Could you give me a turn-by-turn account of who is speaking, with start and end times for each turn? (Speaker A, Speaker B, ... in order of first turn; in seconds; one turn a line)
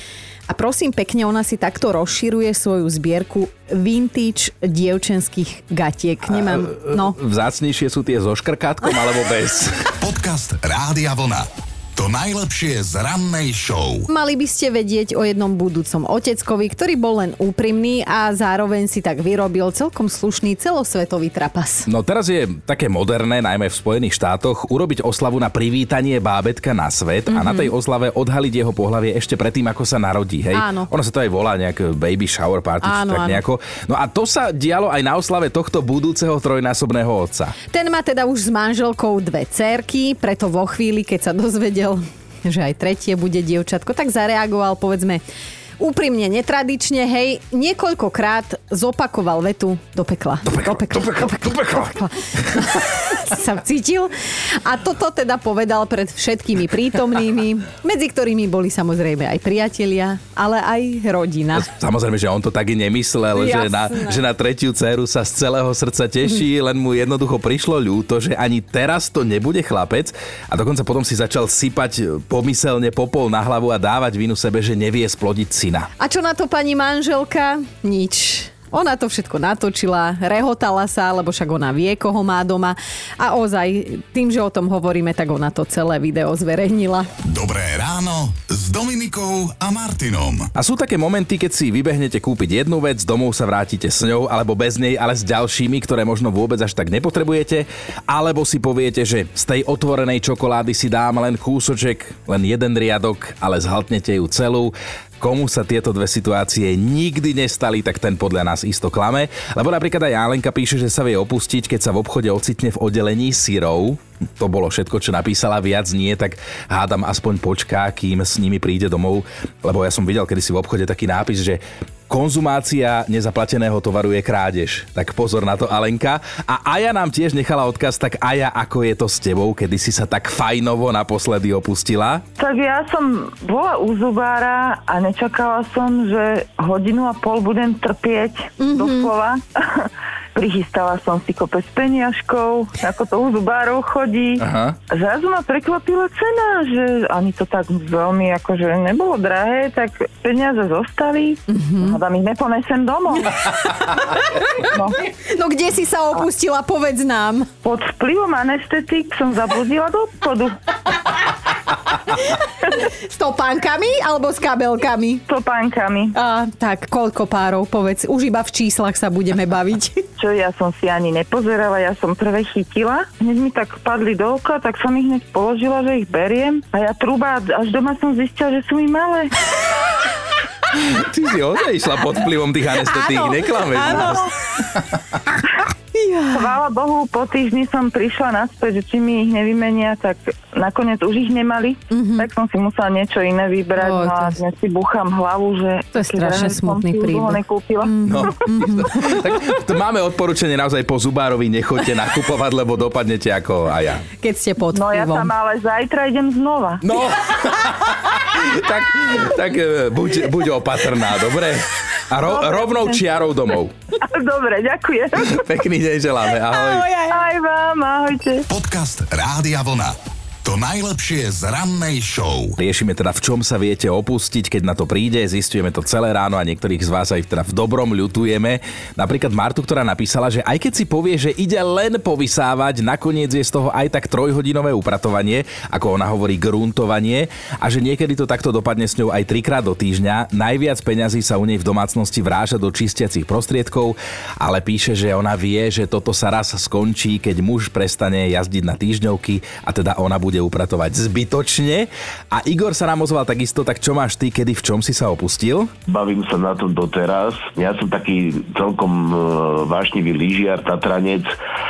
Speaker A: 0.5-7.2
Speaker B: 6.3-10.0
Speaker C: 10.0-14.1
Speaker A: 14.1-21.9
Speaker B: 21.9-37.6
Speaker A: 27.3-27.7
Speaker A: 30.5-30.9
Speaker A: 32.8-33.4
Speaker A: 37.7-45.2
Speaker A: 45.8-54.1
Speaker B: 50.5-52.0
Speaker A: 54.6-61.7
Speaker B: 61.5-75.9
Speaker A: 63.3-64.2
Speaker A: 76.0-87.1
Speaker C: 87.2-90.5
Speaker B: 90.6-132.2
Speaker D: 132.4-153.6
Speaker A: 138.6-139.1
Speaker B: 144.4-144.8
Speaker A: 151.5-152.0
Speaker A: 154.3-157.5
Speaker D: 154.6-155.1
Speaker D: 157.6-161.1
Speaker A: 162.3-165.2
Speaker D: 165.3-166.2
Speaker A: 166.2-170.1
Speaker D: 170.2-179.3
Speaker B: 180.7-185.2
Speaker A: 182.9-184.3
Speaker A: 185.9-186.6
Speaker D: 186.3-198.4
Speaker A: 191.9-192.3
Speaker A: 193.8-194.4
Speaker A: 195.9-199.1
Speaker B: 198.1-204.1
Speaker A: 204.2-205.3
Speaker D: 204.7-206.8
Speaker B: 206.8-213.7
Speaker D: 212.2-213.0
Speaker D: 214.0-215.4
Speaker B: 215.2-216.9
Speaker A: 216.6-217.2
Speaker D: 217.1-218.5
Speaker C: 218.5-219.9
Speaker C: 220.4-222.6
Speaker B: 222.6-255.7
Speaker E: 255.9-261.3